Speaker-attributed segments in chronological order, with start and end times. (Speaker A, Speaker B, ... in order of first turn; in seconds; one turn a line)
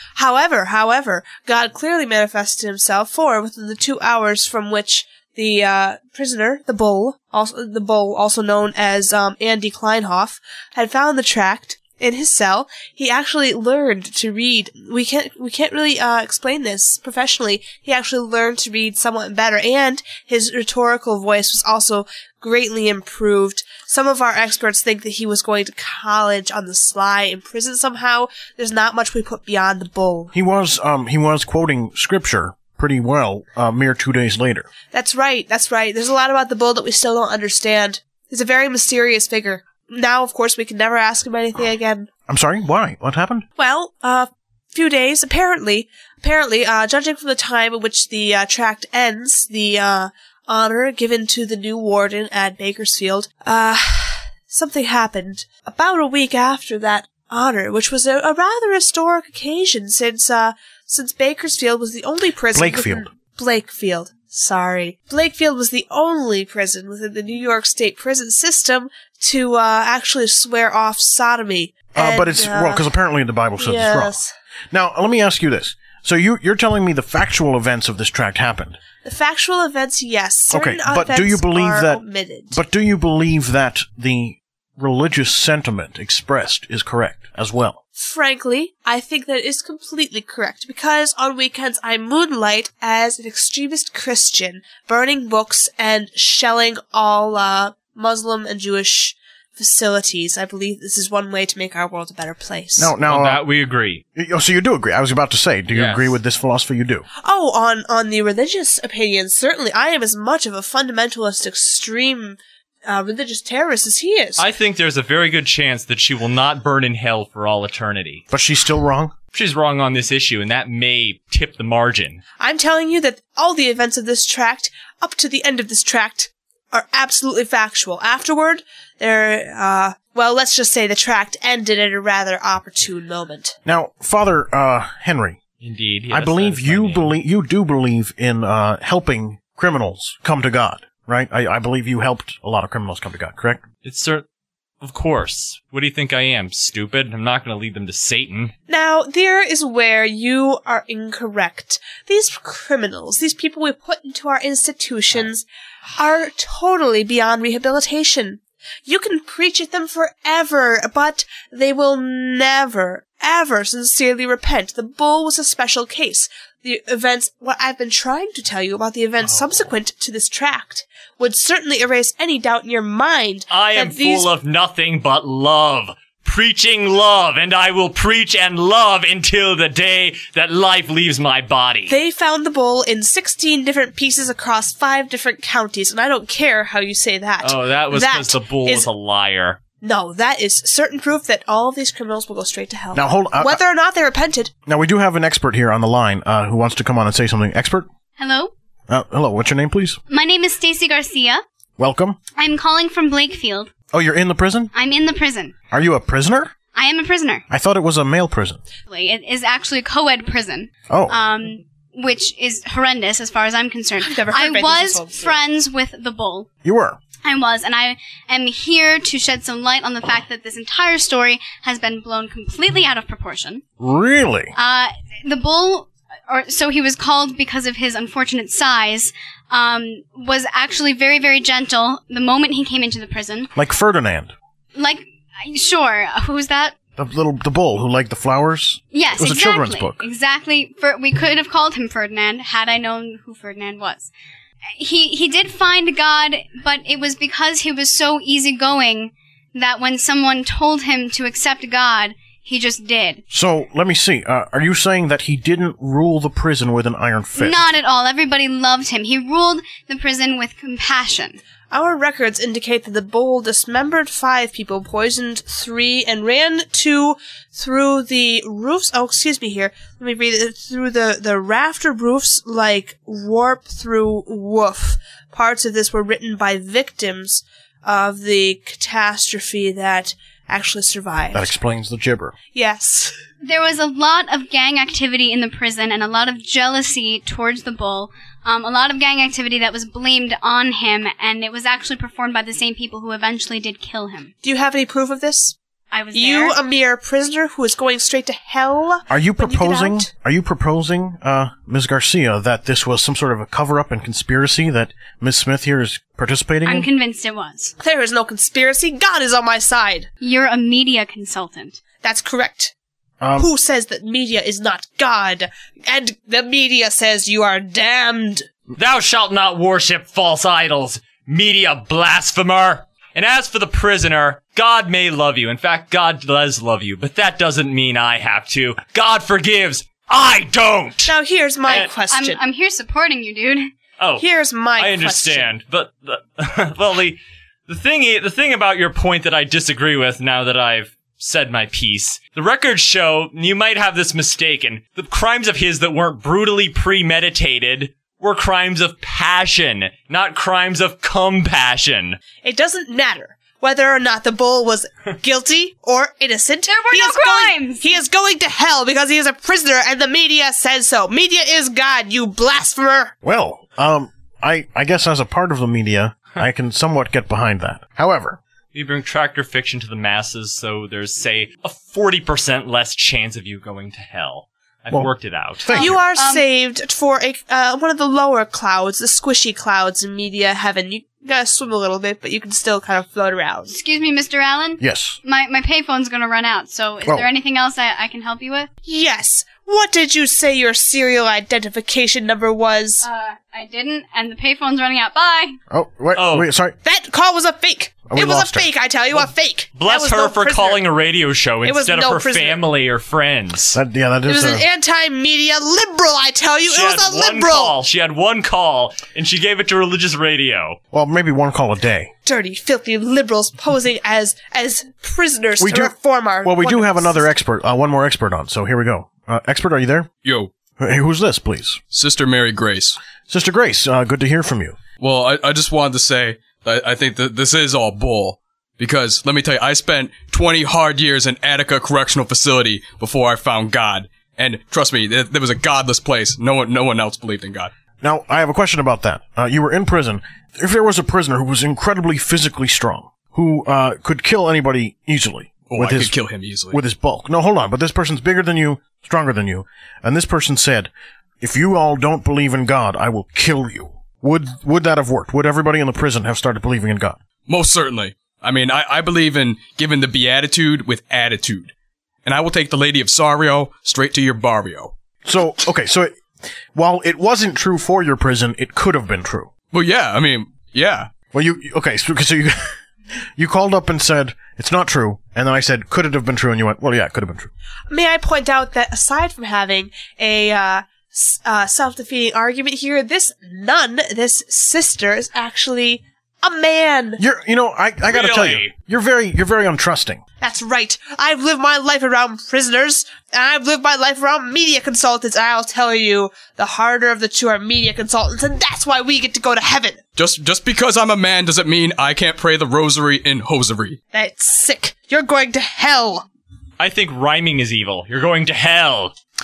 Speaker A: 0.1-30.3
Speaker B: 30.3-34.7
Speaker A: 34.9-42.1
Speaker B: 42.3-43.4
Speaker A: 43.5-72.9
Speaker B: 62.5-63.1
Speaker B: 71.9-74.2
Speaker A: 73.6-74.3
Speaker B: 74.7-78.8
Speaker A: 79.0-82.6
Speaker B: 80.5-87.8
Speaker A: 87.9-103.0
Speaker B: 102.8-103.5
Speaker C: 103.0-104.0
Speaker B: 104.1-107.0
Speaker C: 105.7-106.2
Speaker A: 107.2-114.4
Speaker C: 114.4-118.2
Speaker B: 118.3-119.1
Speaker C: 119.3-122.2
Speaker A: 122.4-133.6
Speaker B: 133.6-135.4
Speaker C: 135.6-137.1
Speaker B: 136.1-143.6
Speaker C: 143.8-144.2
Speaker C: 144.8-148.5
Speaker A: 148.7-155.4
Speaker A: 156.0-174.3
Speaker C: 173.5-181.9
Speaker A: 181.9-188.9
Speaker C: 187.4-189.6
Speaker A: 189.8-194.5
Speaker B: 192.9-193.6
Speaker B: 194.7-197.9
Speaker D: 198.2-198.5
Speaker B: 198.9-200.0
Speaker D: 200.1-201.4
Speaker B: 201.8-202.2
Speaker D: 202.3-203.7
Speaker B: 203.9-204.7
Speaker D: 204.7-205.5
Speaker B: 205.7-206.5
Speaker D: 206.7-207.4
Speaker B: 207.5-208.6
Speaker D: 208.9-216.5
Speaker B: 210.9-211.2
Speaker A: 214.0-215.4
Speaker B: 216.6-217.0
Speaker D: 217.2-223.6
Speaker B: 223.8-224.5
Speaker D: 224.6-233.5
Speaker B: 233.5-234.3
Speaker D: 234.7-236.7
Speaker B: 237.0-240.0
Speaker D: 238.9-244.1
Speaker D: 244.8-253.2
Speaker B: 253.3-257.6
Speaker D: 257.4-261.4
Speaker A: 261.7-281.5
Speaker B: 281.3-282.3
Speaker A: 282.5-283.1
Speaker D: 283.4-294.3
Speaker A: 294.4-295.5
Speaker D: 295.9-296.6
Speaker A: 296.1-300.1
Speaker B: 299.1-306.9
Speaker D: 306.6-307.7
Speaker A: 307.8-310.1
Speaker D: 310.2-311.8
Speaker A: 312.0-312.7
Speaker B: 313.2-313.5
Speaker A: 313.4-318.5
Speaker C: 318.8-331.1
Speaker A: 331.1-332.4
Speaker D: 332.1-333.7
Speaker C: 334.0-334.2
Speaker A: 334.2-335.5
Speaker C: 334.8-352.2
Speaker A: 352.4-363.1
Speaker D: 356.7-357.9
Speaker B: 363.2-368.4
Speaker C: 368.7-375.9
Speaker B: 374.9-376.0
Speaker A: 375.7-383.7
Speaker D: 375.7-376.4
Speaker D: 383.7-388.7
Speaker B: 384.8-385.2
Speaker A: 388.8-393.1
Speaker D: 393.0-395.6
Speaker B: 395.7-396.7
Speaker C: 396.1-396.5
Speaker A: 396.8-400.8
Speaker B: 398.1-398.7
Speaker C: 399.1-403.8
Speaker A: 401.6-402.7
Speaker B: 403.7-404.6
Speaker A: 404.2-407.8
Speaker C: 406.7-410.8
Speaker B: 410.9-412.1
Speaker A: 412.2-417.3
Speaker B: 415.6-420.1
Speaker E: 420.2-420.5
Speaker B: 420.8-421.8
Speaker E: 421.9-423.0
Speaker B: 423.3-424.8
Speaker E: 425.0-437.7
Speaker B: 438.0-446.1
Speaker E: 445.7-446.8
Speaker B: 446.7-457.2
Speaker E: 457.5-461.7
Speaker E: 462.2-464.9
Speaker B: 465.2-466.1
Speaker B: 466.7-469.5
Speaker E: 469.7-471.1
Speaker B: 471.3-472.8
Speaker B: 473.4-477.5
Speaker A: 477.9-487.2
Speaker B: 487.2-490.2
Speaker C: 488.0-488.7
Speaker A: 490.4-500.0
Speaker E: 500.1-504.0
Speaker A: 504.1-506.3
Speaker C: 506.8-509.1